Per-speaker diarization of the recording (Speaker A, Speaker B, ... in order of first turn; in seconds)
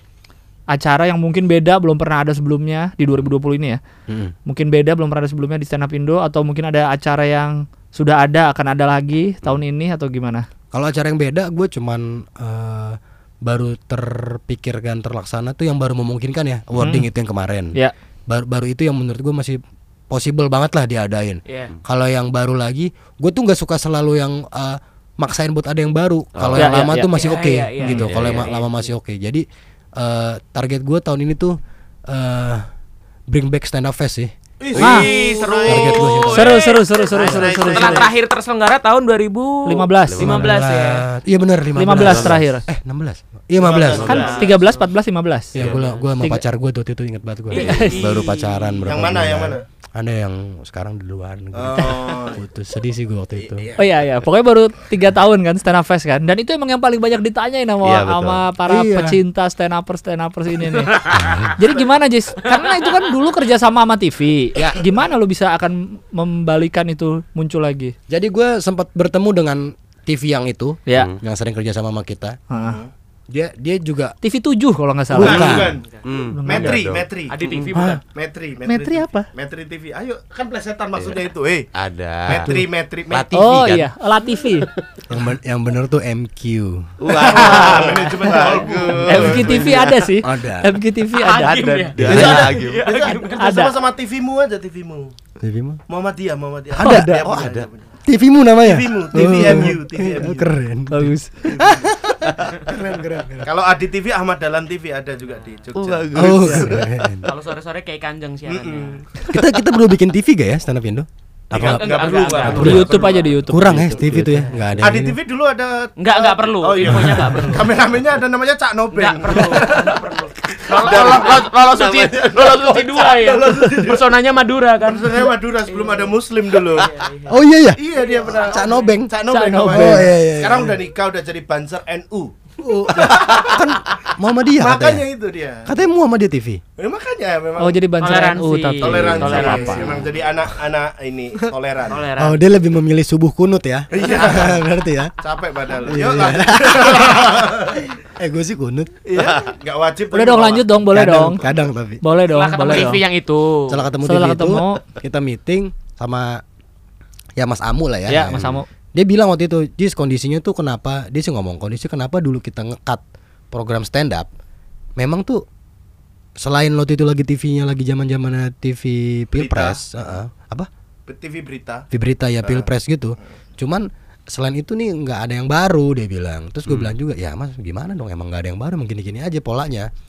Speaker A: 0.7-3.8, 4.5-10.4, 16.8-17.1, 26.5-27.3, 34.8-35.1, 36.3-38.1, 39.7-40.2, 41.8-42.7, 44.1-45.6, 47.5-48.1, 53.8-61.0, 61.5-67.9, 72.5-72.8, 74.2-75.7, 76.3-76.8, 78.7-79.3, 83.3-84.7, 88.9-91.8, 93.4-93.7, 96.8-97.2, 99.4-99.7, 100.9-101.3, 112.5-114.5, 129.3-130.1, 137.6-140.0, 150.1-151.4, 152.0-153.0, 154.1-154.8, 158.1-158.7
Speaker B: 4.1-4.3, 10.7-17.8, 18.3-29.4, 30.0-31.6, 32.1-32.7, 33.3-34.3, 35.7-36.6, 40.2-44.2, 45.5-53.7, 58.7-59.2, 61.1-61.5, 64.6-64.8, 68.1-72.4, 73.3-74.2, 75.1-75.8, 77.8-78.0, 85.1-87.1, 90.2-90.8, 92.0-92.5, 95.4-95.8, 96.8-97.2, 98.1-103.5, 106.2-107.2, 109.3-112.9, 113.5-115.2, 116.9-117.3, 127.3-127.8, 128.5-129.1, 129.7-130.8, 132.6-135.0, 135.7-136.6, 142.2-145.1, 145.8-149.0, 150.9-152.0, 153.7-156.4, 157.4-164.3, 165.0-165.4, 166.4-170.7, 171.9-179.9
Speaker C: 21.5-21.7, 27.1-28.9, 34.8-41.1, 43.9-44.8, 45.6-46.0, 47.5-48.8, 60.7-61.3, 62.5-62.9, 75.5-76.0, 77.3-78.0, 91.2-93.7, 105.3-105.6, 107.2-109.0, 111.5-114.6, 116.0-117.7, 118.9-126.2, 126.7-127.3, 128.0-128.9, 138.0-140.2, 141.9-142.4, 152.3-153.9
Speaker D: 26.4-26.7, 28.0-28.5, 40.1-40.6, 41.9-42.4, 43.8-44.4, 45.5-45.9, 47.6-48.0, 57.8-58.4, 70.9-71.2, 76.0-77.8, 81.0-82.6, 83.1-83.9, 84.6-85.0, 87.0-90.1, 91.6-92.9, 97.2-97.7, 105.8-107.3, 117.0-117.6, 120.7-123.0, 149.2-149.5, 158.3-158.6
Speaker E: 34.6-38.1, 43.6-44.5, 48.9-49.6, 51.5-52.4, 53.4-53.8, 72.6-72.9, 75.1-75.9, 76.5-81.7, 82.3-83.3, 87.1-89.6, 92.0-95.1, 95.9-97.9, 98.6-100.5, 101.5-101.9, 103.4-106.8, 108.5-109.0, 111.5-113.3, 114.8-121.5, 122.7-124.0, 124.8-126.9, 127.8-133.8, 134.6-135.7, 136.8-137.8, 138.8-142.1, 143.9-144.6, 145.2-147.9, 149.1-150.8, 169.4-170.0, 171.1-171.9, 172.4-172.7